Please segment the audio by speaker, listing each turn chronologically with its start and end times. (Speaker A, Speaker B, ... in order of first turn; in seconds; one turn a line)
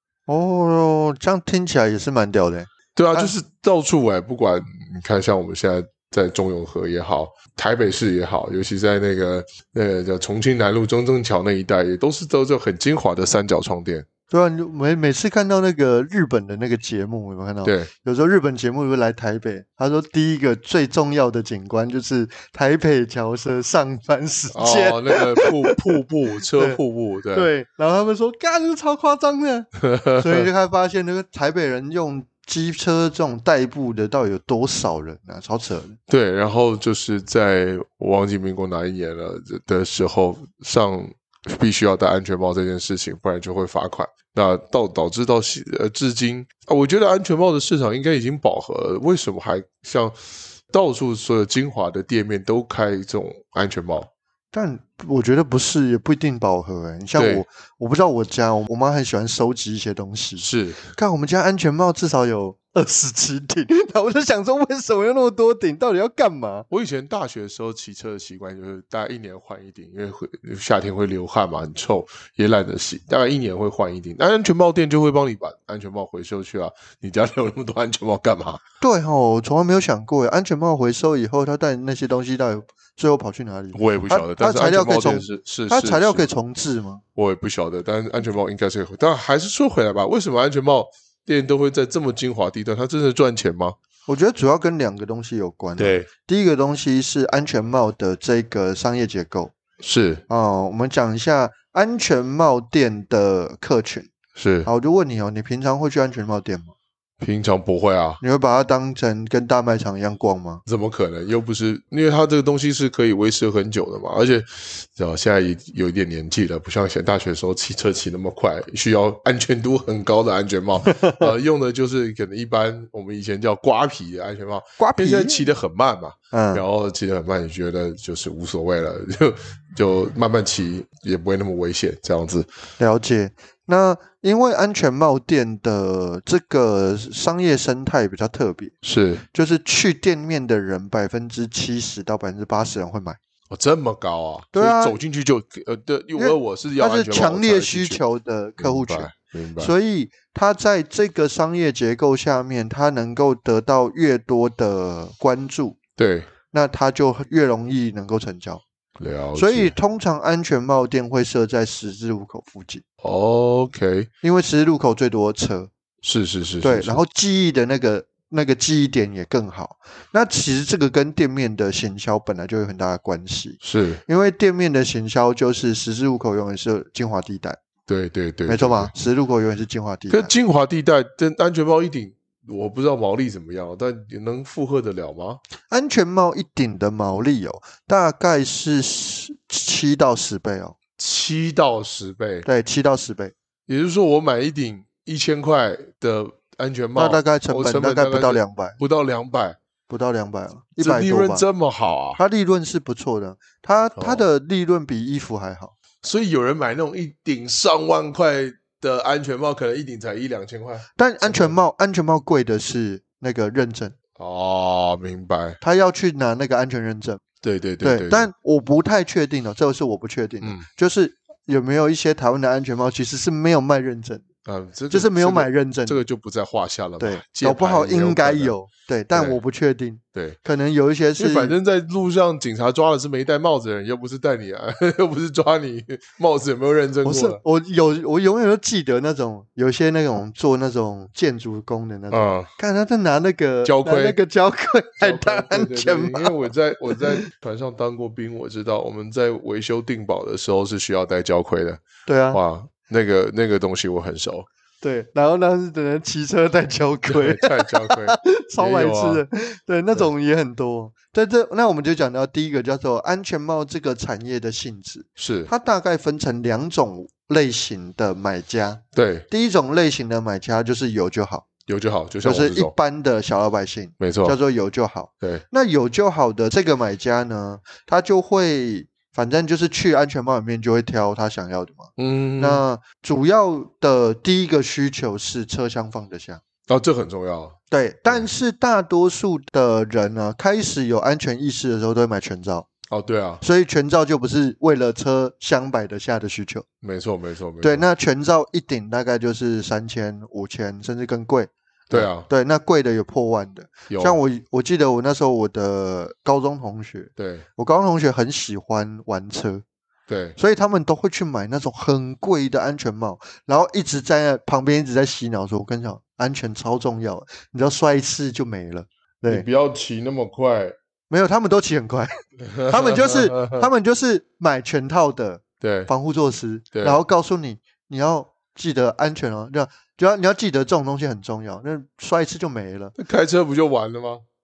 Speaker A: 0.3-3.3
Speaker B: 3.0-14.1
Speaker A: 14.3-25.9
Speaker B: 17.6-17.9
Speaker B: 24.5-27.5
Speaker A: 26.5-26.8
Speaker A: 27.3-36.0
Speaker B: 29.8-30.5
Speaker B: 36.1-54.1
Speaker A: 54.5-66.7
Speaker B: 57.2-57.5
Speaker B: 60.4-60.9
Speaker B: 66.7-78.6
Speaker A: 78.8-87.0
Speaker B: 83.7-86.3
Speaker B: 87.2-93.8
Speaker A: 94.1-99.5
Speaker B: 95.8-96.1
Speaker B: 99.8-100.2
Speaker A: 100.3-104.1
Speaker B: 104.4-104.7
Speaker A: 104.7-106.7
Speaker B: 107.2-108.2
Speaker A: 108.2-110.6
Speaker B: 110.7-132.5
Speaker A: 120.9-121.3
Speaker A: 124.8-125.5
Speaker A: 126.3-126.6
Speaker A: 132.8-138.8
Speaker B: 138.8-139.2
Speaker A: 139.3-143.2
Speaker B: 143.5-148.0
Speaker A: 144.5-145.0
Speaker A: 146.2-155.8
Speaker B: 148.6-149.7
Speaker B: 156.0-156.3
Speaker A: 156.5-158.6
Speaker B: 159.0-159.8
Speaker A: 159.4-162.8
Speaker B: 163.0-164.1
Speaker A: 164.2-165.7
Speaker B: 166.0-167.0
Speaker A: 166.6-177.6
Speaker B: 173.6-174.0
Speaker B: 177.9-178.9
Speaker A: 178.5-180.3
Speaker B: 180.1-185.4
Speaker A: 185.7-190.8
Speaker B: 191.0-192.5
Speaker A: 192.4-193.3
Speaker B: 193.7-199.6
Speaker A: 197.0-198.8
Speaker A: 199.9-201.5
Speaker B: 200.8-202.2
Speaker A: 202.2-205.7
Speaker B: 204.0-204.2
Speaker B: 206.0-211.6
Speaker A: 211.0-213.9
Speaker B: 214.2-215.6
Speaker A: 215.6-217.2
Speaker B: 217.4-218.3
Speaker A: 217.8-224.2
Speaker B: 224.4-228.6
Speaker A: 224.9-226.0
Speaker A: 227.0-231.6
Speaker B: 229.1-229.4
Speaker B: 231.2-237.4
Speaker A: 237.0-247.2
Speaker B: 242.1-242.5
Speaker B: 243.7-244.2
Speaker B: 245.0-254.5
Speaker A: 252.1-252.4
Speaker A: 254.8-271.5
Speaker B: 257.1-259.2
Speaker B: 265.2-265.5
Speaker B: 268.9-269.3
Speaker B: 271.7-272.7
Speaker A: 272.2-286.4
Speaker B: 274.0-274.4
Speaker B: 282.0-282.6
Speaker B: 286.7-287.6
Speaker A: 287.7-292.7
Speaker B: 292.9-293.4
Speaker A: 293.4-296.7
Speaker B: 296.8-297.9
Speaker A: 297.6-309.6
Speaker B: 301.9-302.3
Speaker B: 303.9-304.2
Speaker B: 307.2-307.4
Speaker B: 310.1-310.4
Speaker A: 310.4-319.5
Speaker B: 319.2-320.8
Speaker A: 321.1-332.9
Speaker B: 322.4-323.7
Speaker B: 325.6-325.9
Speaker B: 326.7-327.0
Speaker B: 333.0-334.2